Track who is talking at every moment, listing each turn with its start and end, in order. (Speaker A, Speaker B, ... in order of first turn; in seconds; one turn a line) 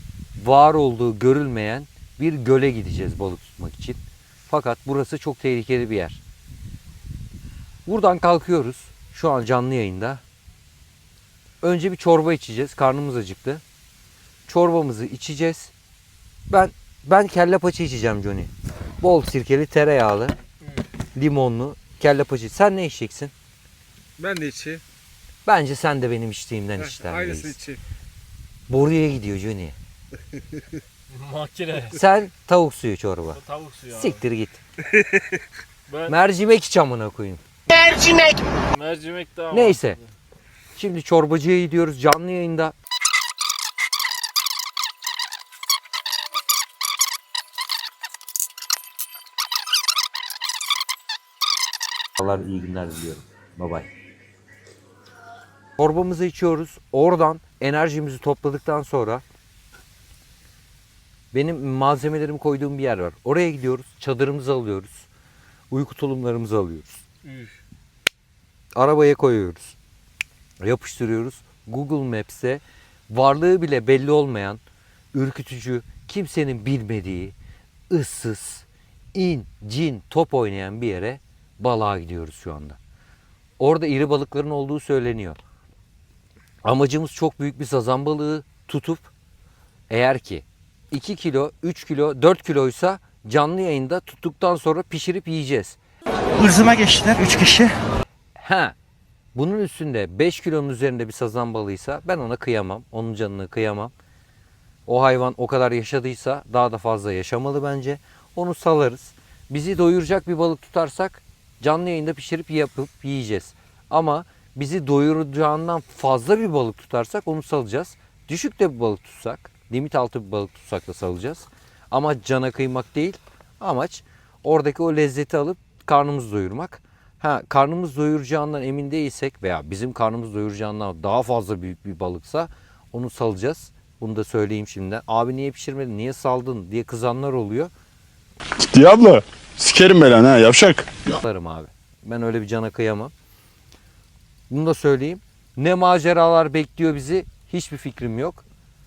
Speaker A: 0.3-6.2
Speaker A: 7.9-10.2
Speaker A: 11.6-13.6
Speaker A: 14.5-15.7
Speaker A: 16.5-20.4
Speaker A: 21.1-23.3
Speaker B: 24.2-24.8
Speaker A: 25.4-27.6
Speaker B: 26.8-27.8
Speaker A: 28.7-29.8
Speaker C: 31.1-32.0
Speaker A: 31.9-34.6
Speaker C: 33.4-34.2
Speaker C: 35.9-36.1
Speaker A: 36.1-37.4
Speaker C: 38.7-40.0
Speaker A: 39.5-40.0
Speaker A: 40.8-42.7
Speaker A: 52.2-53.9
Speaker A: 55.8-59.2
Speaker A: 61.3-65.1
Speaker A: 65.7-67.0
Speaker C: 67.2-67.5
Speaker A: 68.7-69.8
Speaker A: 70.6-74.6
Speaker A: 75.1-77.3
Speaker A: 77.9-82.8
Speaker A: 83.6-85.4
Speaker A: 86.6-89.1
Speaker A: 89.9-95.8
Speaker B: 96.4-97.7
Speaker A: 96.5-97.7
Speaker A: 98.4-98.8
Speaker A: 99.3-103.9
Speaker A: 104.9-137.7
Speaker D: 138.7-141.0
Speaker A: 141.1-143.1
Speaker A: 144.5-148.4